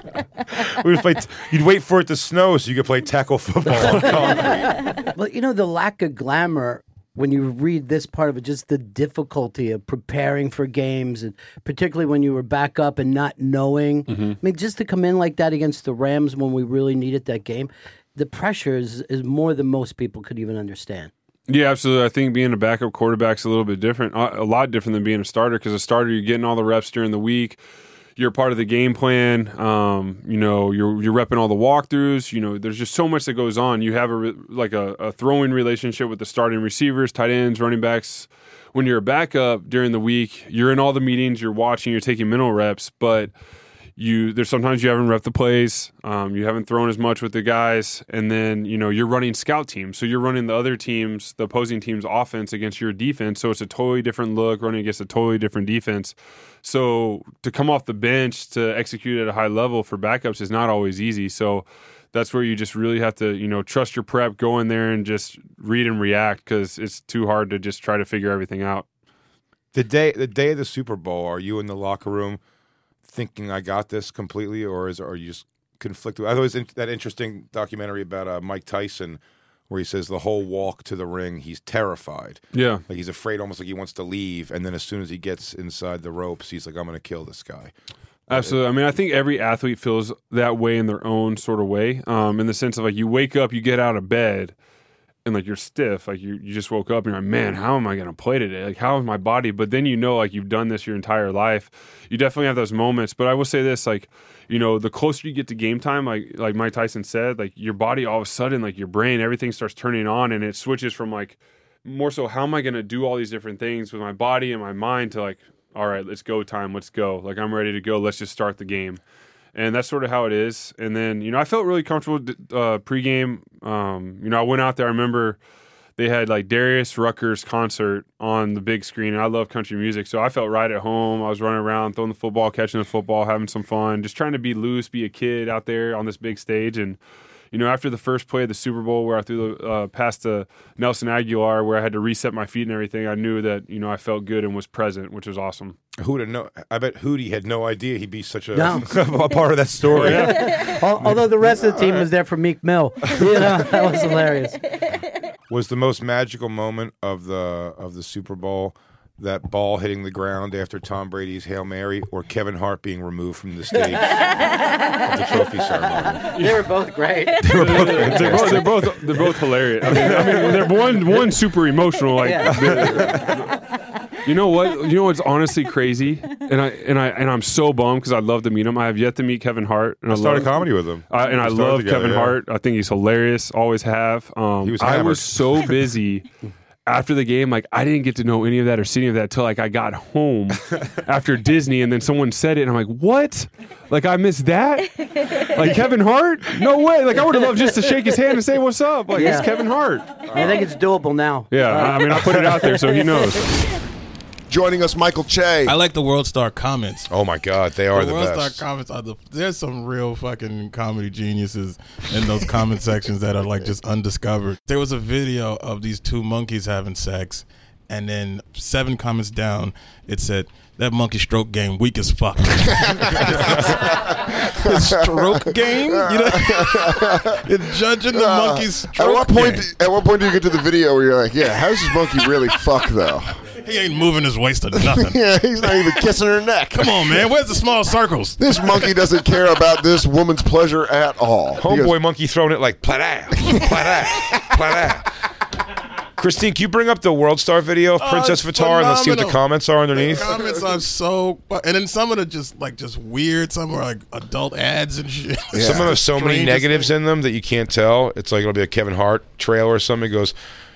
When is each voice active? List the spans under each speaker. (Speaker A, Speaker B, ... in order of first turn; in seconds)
Speaker A: 0.5-4.8, 69.7-72.4, 73.1-87.7, 146.0-150.4, 155.5-164.4, 165.0-166.4, 167.4-168.8, 169.9-170.6, 172.4-173.2, 180.1-182.4, 184.6-185.7, 200.3-200.6, 207.1-208.6, 241.6-245.1, 246.2-250.3, 255.6-260.3
Speaker B: 3.7-21.1, 148.5-148.9, 149.9-154.6, 165.9-168.0, 172.2-172.5, 199.1-199.5, 200.3-202.1
Speaker C: 14.1-14.3, 21.5-27.6, 28.2-43.3, 44.0-68.8, 82.5-82.8, 88.3-94.5, 95.2-119.0, 119.5-125.4, 126.0-137.0, 137.5-145.8, 149.9-150.6, 166.3-166.6, 167.5-173.6, 174.2-186.2, 186.9-200.3, 201.5-203.6
Speaker D: 151.4-152.1, 205.6-207.1, 207.9-229.7, 233.6-236.0, 236.7-238.9, 248.0-249.4, 249.9-256.9
Speaker E: 204.5-205.7, 222.9-227.6, 228.1-233.4, 234.7-237.3, 238.4-241.9, 243.3-243.6, 255.5-255.9